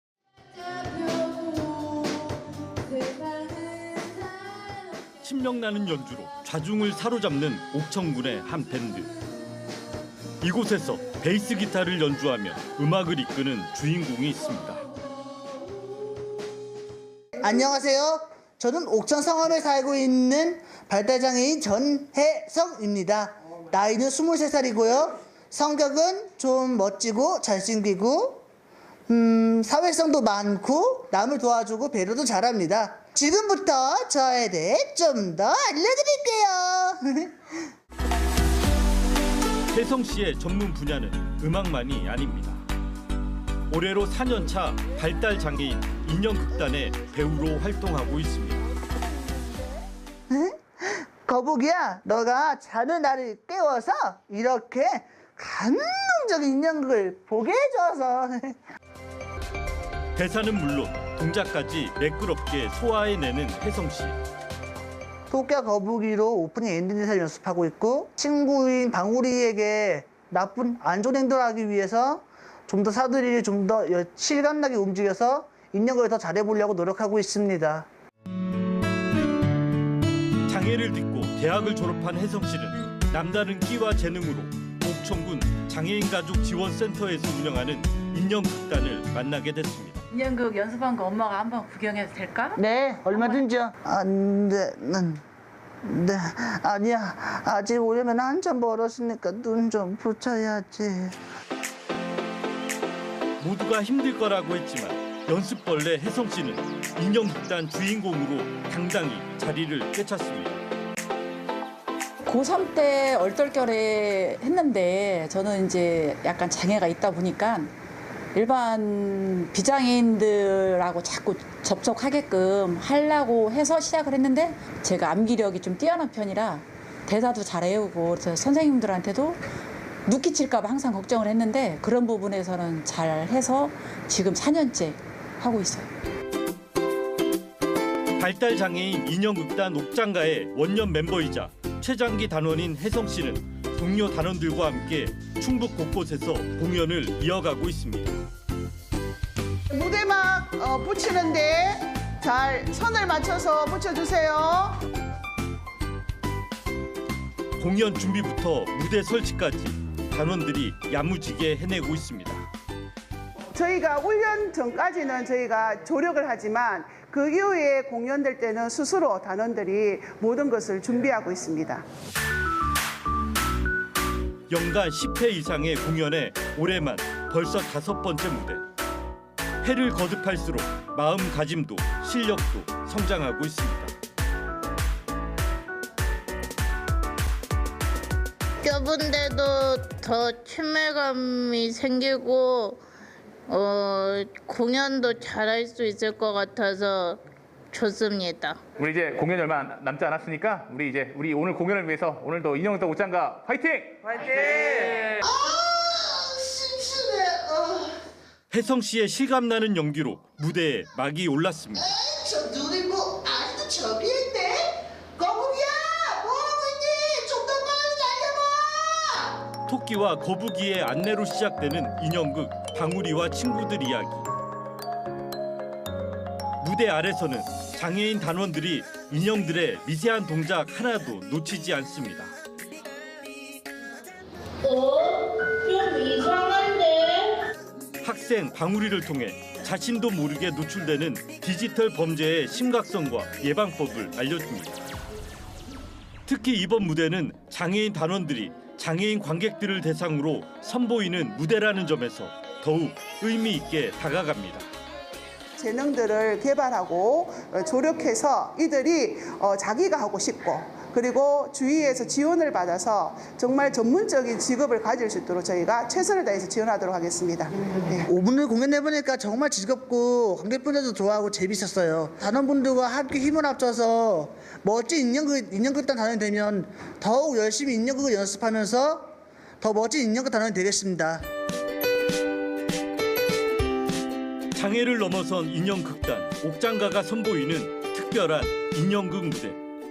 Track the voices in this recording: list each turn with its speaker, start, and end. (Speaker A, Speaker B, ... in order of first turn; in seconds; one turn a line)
Speaker A: 5.2-9.1
Speaker A: 10.4-14.8
Speaker B: 17.4-28.4
Speaker B: 29.1-37.5
Speaker A: 39.7-42.6
Speaker A: 43.7-48.6
Speaker B: 50.3-58.5
Speaker A: 60.1-64.2
Speaker B: 65.3-77.9
Speaker A: 80.5-90.0
Speaker C: 90.1-93.5
Speaker B: 92.6-95.2
Speaker B: 95.8-101.2
Speaker A: 103.4-110.6
Speaker C: 112.2-117.7
Speaker C: 118.3-129.4
Speaker C: 130.1-135.9
Speaker A: 138.2-148.2
Speaker D: 149.7-154.9
Speaker A: 157.6-162.5
Speaker D: 163.5-171.9
Speaker A: 174.5-178.6
Speaker A: 179.6-183.9
Speaker E: 188.6-192.8
Speaker E: 193.5-197.2
Speaker E: 197.7-198.6
Speaker F: 198.8-204.1
Speaker B: 204.3-208.0
Speaker A: 208.5-211.9
Speaker B: 211.7-219.4
Speaker A: 219.7-224.3
Speaker A: 226.6-232.3
Speaker E: 234.6-237.4
Speaker A: 238.0-244.8
Speaker A: 246.2-254.7
Speaker D: 255.6-268.1
Speaker B: 268.1-281.2
Speaker A: 284.5-289.6